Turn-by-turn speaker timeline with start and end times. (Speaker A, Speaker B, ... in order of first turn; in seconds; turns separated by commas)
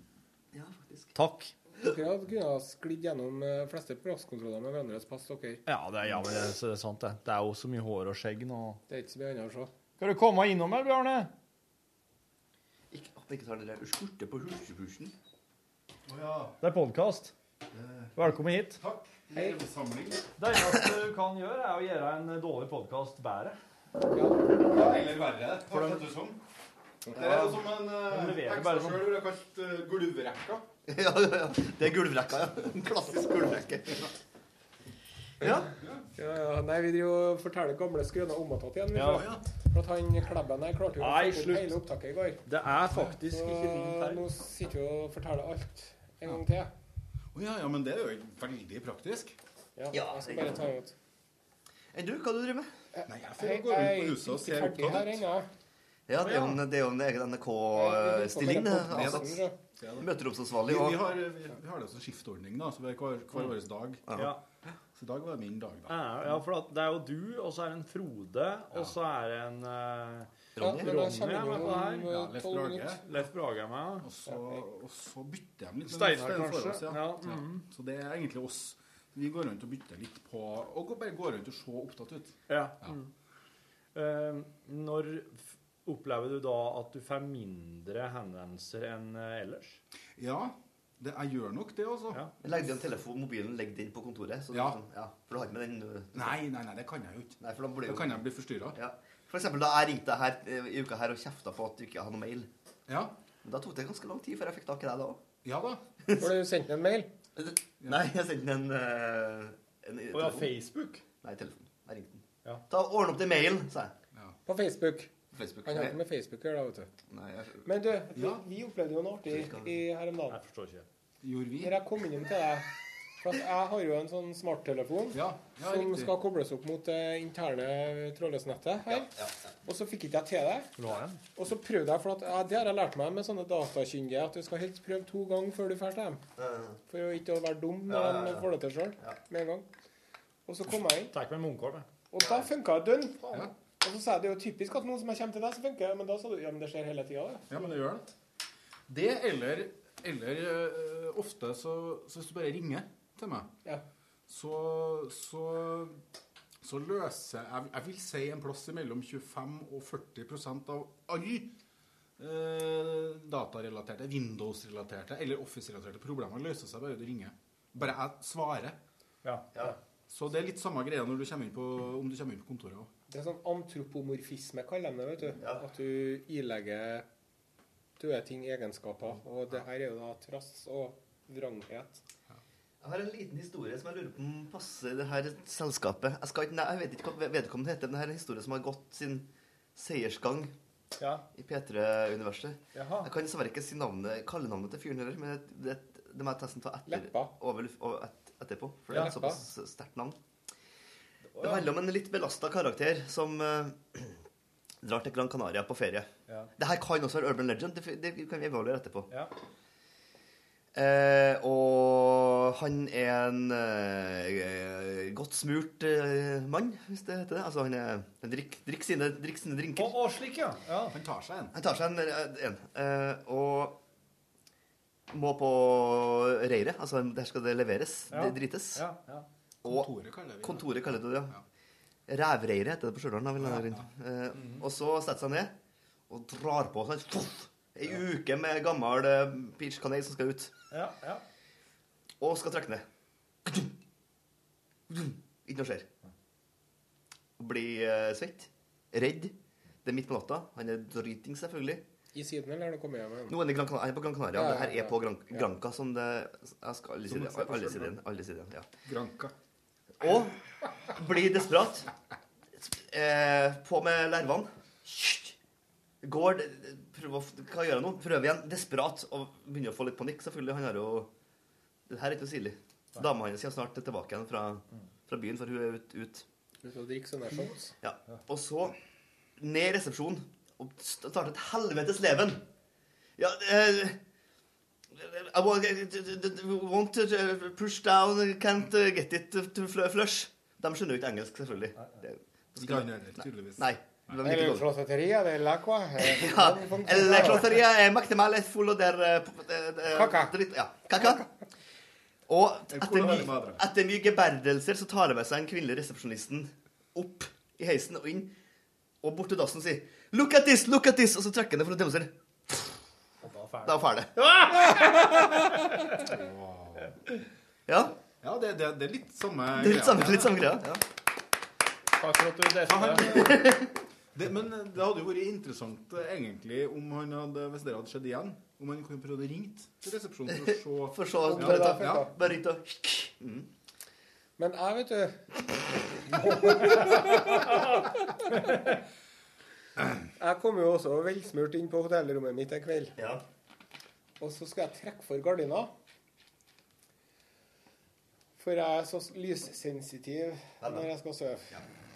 Speaker A: 0.5-1.1, Speaker B: 1.1-1.5, Speaker C: 1.8-5.6, Speaker B: 5.7-8.8, Speaker C: 8.9-9.7, Speaker B: 10.0-11.3, Speaker A: 12.9-15.1, Speaker D: 16.1-16.6, Speaker B: 16.6-17.3, Speaker A: 17.8-18.1, Speaker B: 18.1-18.8, Speaker D: 18.8-20.2, Speaker C: 19.3-19.6, Speaker B: 20.4-23.6, Speaker D: 24.4-26.4, Speaker B: 25.7-26.0, Speaker D: 27.1-30.6, Speaker B: 28.1-29.1, Speaker A: 30.9-34.0, Speaker A: 35.4-35.7, Speaker C: 36.2-42.4, Speaker B: 38.9-39.2, Speaker D: 39.0-39.4, Speaker B: 41.0-41.8, Speaker B: 42.5-44.2, Speaker C: 43.2-46.7, Speaker D: 47.3-49.4, Speaker C: 49.8-50.9, Speaker A: 49.9-50.6, Speaker A: 51.9-52.7, Speaker C: 53.0-55.5, Speaker D: 53.0-55.2, Speaker A: 56.1-59.4, Speaker B: 56.1-56.6, Speaker C: 57.7-59.5, Speaker D: 58.9-59.2, Speaker D: 59.8-60.1, Speaker A: 60.0-61.0, Speaker D: 60.6-64.0, Speaker B: 64.1-64.4, Speaker D: 64.9-66.4, Speaker B: 65.9-72.1, Speaker A: 70.6-71.0, Speaker C: 70.6-73.0, Speaker D: 72.1-73.0, Speaker B: 73.0-74.1, Speaker D: 74.0-82.9, Speaker B: 75.9-77.6, Speaker B: 82.5-83.1, Speaker B: 83.9-89.8, Speaker D: 90.2-92.3, Speaker A: 92.4-96.4, Speaker D: 94.5-94.8, Speaker D: 96.1-98.8, Speaker A: 97.4-102.5, Speaker D: 102.9-103.1, Speaker A: 103.4-105.2, Speaker D: 105.4-105.8, Speaker C: 106.2-107.1, Speaker A: 107.3-110.5, Speaker B: 110.1-111.0, Speaker A: 111.2-113.9, Speaker C: 114.4-115.1, Speaker A: 115.3-116.0, Speaker C: 115.6-116.9, Speaker A: 117.1-117.6, Speaker C: 117.6-120.4, Speaker D: 118.1-118.4, Speaker A: 119.3-119.7, Speaker B: 120.3-120.9, Speaker D: 121.2-121.8, Speaker C: 121.6-122.7, Speaker C: 123.2-129.1, Speaker D: 125.1-126.2, Speaker A: 128.9-129.3, Speaker C: 129.6-130.7, Speaker B: 130.8-131.2, Speaker C: 131.3-136.2, Speaker A: 136.4-136.8, Speaker C: 136.9-139.7, Speaker A: 137.9-138.5, Speaker C: 140.4-141.1, Speaker B: 141.1-141.9, Speaker C: 142.1-147.7, Speaker D: 147.5-148.1, Speaker D: 148.9-153.5, Speaker D: 154.3-156.0, Speaker D: 156.6-161.5, Speaker D: 162.2-168.8, Speaker B: 169.2-169.7, Speaker D: 170.1-172.9, Speaker C: 173.1-177.1, Speaker A: 175.4-175.6, Speaker C: 178.0-182.0, Speaker A: 182.8-190.5, Speaker B: 191.0-191.2, Speaker A: 191.3-200.2, Speaker B: 192.7-193.1, Speaker C: 196.9-197.3, Speaker B: 198.9-199.3, Speaker C: 198.9-199.4, Speaker B: 201.3-201.7, Speaker A: 201.4-204.2, Speaker A: 204.8-209.1, Speaker A: 210.7-219.9, Speaker B: 219.8-220.9, Speaker D: 220.9-221.5, Speaker A: 221.5-223.8, Speaker A: 225.1-228.8, Speaker B: 228.1-229.3, Speaker A: 229.6-231.3, Speaker D: 229.6-231.4, Speaker A: 232.1-235.5, Speaker D: 233.4-233.8, Speaker A: 236.1-240.5, Speaker B: 240.7-241.2, Speaker A: 242.2-242.8, Speaker A: 243.4-243.7, Speaker A: 244.9-245.9, Speaker A: 247.4-249.3, Speaker A: 249.8-251.8, Speaker C: 252.1-253.3, Speaker A: 253.3-258.7, Speaker C: 254.3-255.4, Speaker D: 257.1-258.0, Speaker D: 258.8-259.3, Speaker A: 260.0-260.4, Speaker A: 260.9-261.9, Speaker A: 262.6-265.3, Speaker A: 266.0-271.1, Speaker A: 271.9-276.2, Speaker C: 276.6-277.7, Speaker A: 277.8-278.7, Speaker A: 279.4-282.4, Speaker A: 283.2-284.0, Speaker A: 284.9-294.7, Speaker D: 292.6-293.7, Speaker C: 294.2-297.6, Speaker A: 296.0-301.2, Speaker C: 299.9-300.3, Speaker A: 302.3-308.3, Speaker D: 302.7-303.6, Speaker A: 309.0-312.7, Speaker B: 313.2-316.0, Speaker A: 313.6-314.1, Speaker D: 316.0-316.9, Speaker A: 317.7-317.9, Speaker D: 318.2-320.4, Speaker A: 319.5-320.8, Speaker B: 322.0-323.3, Speaker D: 322.7-323.6, Speaker A: 323.2-323.7, Speaker D: 324.1-332.1, Speaker A: 330.3-333.5, Speaker C: 331.3-332.1, Speaker C: 334.4-338.6, Speaker C: 340.1-342.9, Speaker A: 343.0-343.2, Speaker C: 344.2-345.7, Speaker C: 348.4-351.5, Speaker A: 350.6-350.9